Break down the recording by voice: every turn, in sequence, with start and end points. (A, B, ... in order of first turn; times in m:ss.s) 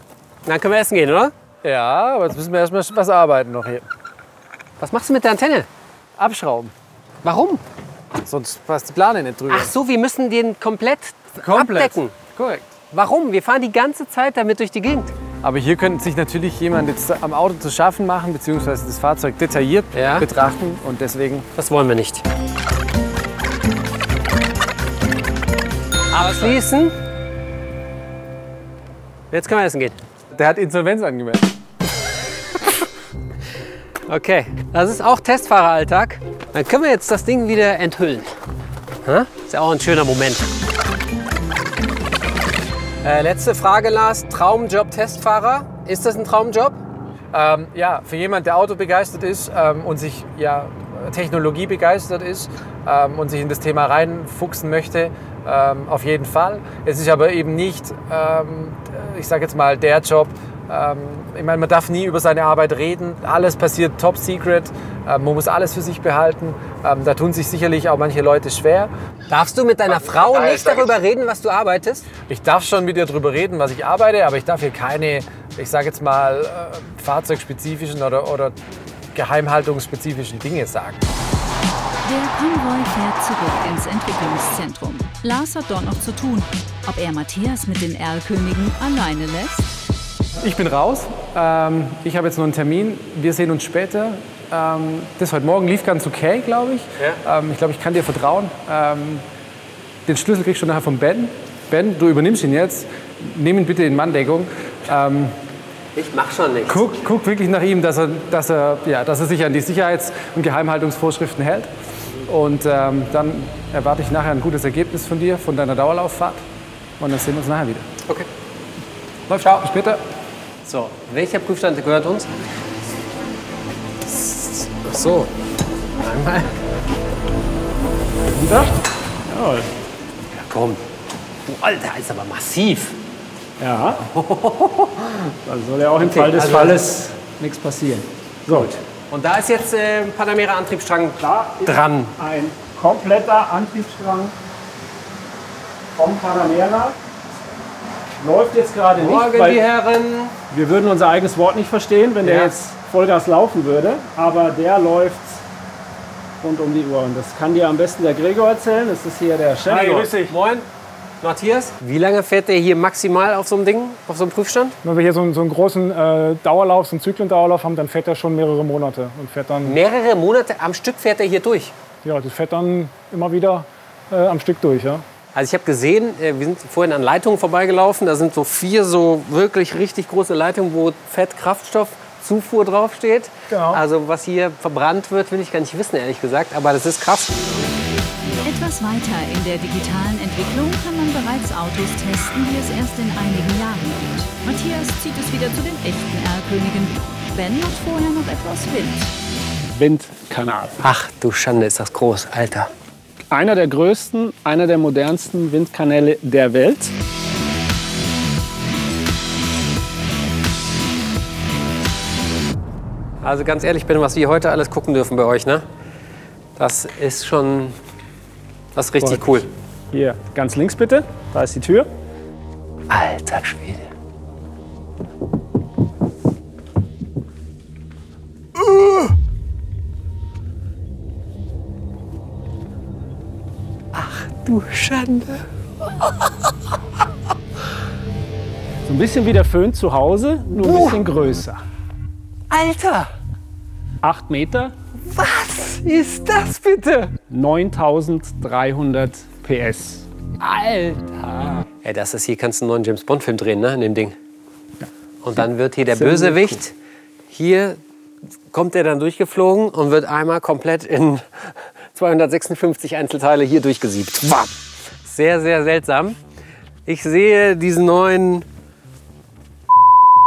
0:00.5-0:01.3 A
0:01.6-0:03.9 B
0:04.8-0:05.7 A
0:06.2-0:06.7 B
0:07.2-0:07.6 A
0:08.2-0:09.7 B
0:09.5-0:12.1 A
0:11.4-0:12.7 B
0:12.9-0:15.2 A
0:15.4-0:21.5 B
0:19.9-0:20.3 A
0:21.6-0:22.2 A
0:26.1-0:27.0 A
0:26.2-0:26.6 B
0:29.3-0:30.0 A
0:30.3-0:31.5 B
0:34.1-0:38.3 A
0:39.0-0:40.5 A
0:43.0-0:46.8 A
0:47.3-1:08.9 B
1:09.3-1:12.1 A
1:12.3-1:18.6 B
1:19.1-1:21.0 B
1:22.0-1:29.7 C
1:30.4-1:39.2 B
1:40.1-1:45.4 B
1:46.0-1:47.0 A
1:46.7-1:51.7 B
1:52.3-1:56.4 B
1:57.0-1:57.9 B
1:59.3-1:59.7 A
1:59.5-2:00.0 B
2:00.7-2:02.3 A
2:04.0-2:05.3 A
2:06.0-2:06.5 A
2:08.3-2:08.7 D
2:09.3-2:09.7 D
2:10.4-2:10.8 A
2:11.5-2:13.0 A
2:13.6-2:14.1 D
2:14.1-2:15.3 A
2:15.4-2:18.8 D
2:16.0-2:16.8 A
2:18.5-2:22.1 A
2:21.2-2:24.4 D
2:26.0-2:27.0 D
2:28.2-2:29.6 D
2:29.0-2:30.4 A
2:30.5-2:35.4 D
2:32.2-2:32.5 A
2:36.4-2:40.1 D
2:39.6-2:40.3 E
2:39.9-2:40.7 A
2:41.2-2:44.8 A
2:44.8-2:49.8 E
2:49.6-2:51.7 A
2:52.0-2:55.0 E
2:55.4-3:07.6 A
3:03.5-3:03.8 E
3:08.4-3:19.1 C
3:19.7-3:20.8 D
3:20.8-3:22.7 A
3:23.3-3:26.9 D
3:33.2-3:35.6 A
3:36.6-3:37.8 A
3:38.8-3:39.5 A
3:39.9-3:41.9 D
3:42.9-3:43.8 A
3:53.9-3:55.4 A
3:56.0-3:56.3 A
3:58.8-4:01.6 D
4:00.6-4:01.0 A
4:02.5-4:03.1 A
4:04.0-4:04.8 D
4:05.1-4:07.1 A
4:07.3-4:11.6 D
4:10.4-4:11.0 A
4:11.8-4:14.2 A
4:15.2-4:16.7 A
4:15.9-4:16.6 D
4:17.3-4:17.8 A
4:18.5-4:24.5 A
4:25.0-4:26.2 A
4:26.9-4:28.5 A